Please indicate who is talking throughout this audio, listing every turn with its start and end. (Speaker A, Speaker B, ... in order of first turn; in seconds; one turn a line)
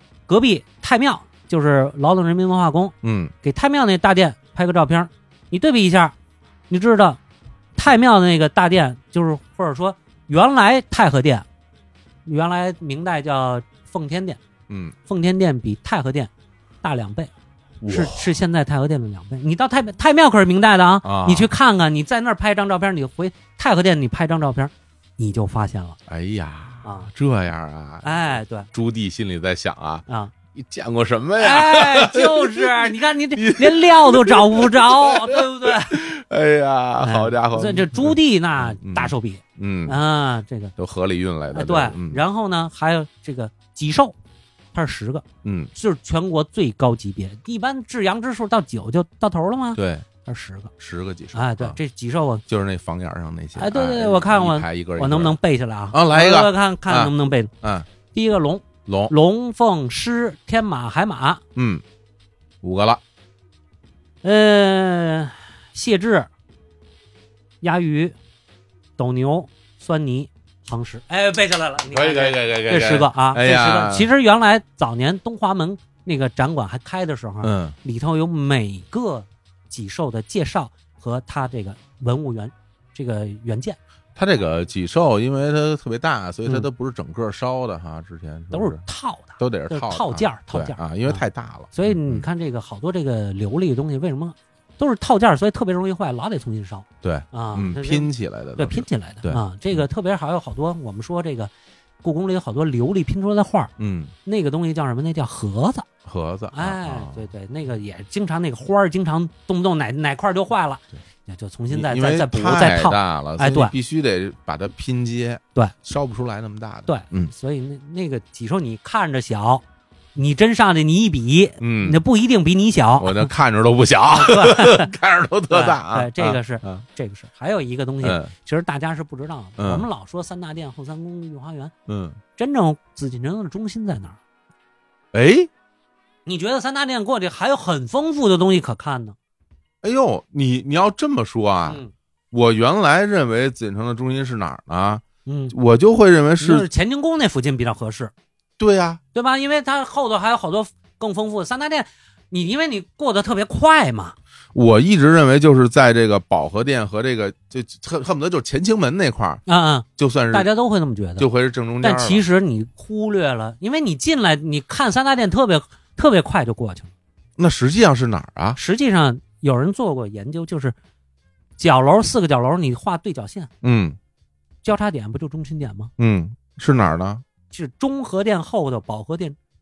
Speaker A: 0.3-6.2
Speaker B: 3.0-3.3
Speaker A: 6.7-7.2
Speaker A: 7.8-11.5
Speaker A: 12.3-14.4
Speaker B: 14.7-14.9
Speaker A: 15.1-16.3
Speaker A: 16.8-17.3
Speaker B: 17.8-18.3
Speaker A: 17.9-26.0
Speaker B: 21.0-21.5
Speaker B: 26.1-40.0
Speaker A: 26.8-27.1
Speaker A: 28.0-28.7
Speaker A: 30.1-30.3
Speaker A: 31.4-36.0
Speaker A: 37.0-40.7
Speaker B: 40.8-42.2
Speaker A: 41.5-44.2
Speaker A: 44.7-50.7
Speaker B: 45.4-45.7
Speaker B: 49.8-50.1
Speaker B: 50.8-51.8
Speaker A: 51.3-52.4
Speaker B: 52.5-55.4
Speaker A: 53.5-57.5
Speaker B: 55.9-57.9
Speaker A: 58.1-61.4
Speaker B: 58.9-59.1
Speaker B: 61.5-61.8
Speaker B: 62.6-63.0
Speaker A: 64.2-66.3
Speaker A: 67.6-68.2
Speaker A: 69.0-83.8
Speaker B: 71.9-74.1
Speaker B: 77.4-77.8
Speaker B: 84.2-88.8
Speaker A: 88.5-101.5
Speaker B: 89.4-92.3
Speaker B: 97.0-99.9
Speaker A: 102.0-103.7
Speaker B: 103.8-104.1
Speaker A: 104.3-105.9
Speaker B: 106.0-107.3
Speaker A: 106.5-113.7
Speaker B: 111.7-117.3
Speaker A: 116.9-119.6
Speaker A: 120.2-123.3
Speaker B: 121.6-122.0
Speaker B: 123.0-126.9
Speaker A: 124.1-124.9
Speaker A: 125.5-131.7
Speaker B: 128.0-128.3
Speaker B: 129.6-129.9
Speaker B: 131.9-132.2
Speaker A: 132.4-134.2
Speaker B: 135.1-135.5
Speaker A: 136.3-139.2
Speaker B: 139.8-141.8
Speaker A: 141.7-141.9
Speaker B: 142.3-146.7
Speaker A: 145.3-145.5
Speaker A: 146.4-148.1
Speaker B: 148.6-149.0
Speaker A: 149.1-154.2
Speaker B: 154.5-159.4
Speaker A: 159.5-161.3
Speaker B: 160.0-160.5
Speaker B: 161.2-162.3
Speaker A: 161.8-166.9
Speaker B: 167.4-168.6
Speaker A: 168.6-170.8
Speaker A: 171.6-173.5
Speaker B: 173.6-174.0
Speaker A: 174.6-175.9
Speaker B: 176.0-177.2
Speaker A: 177.5-179.4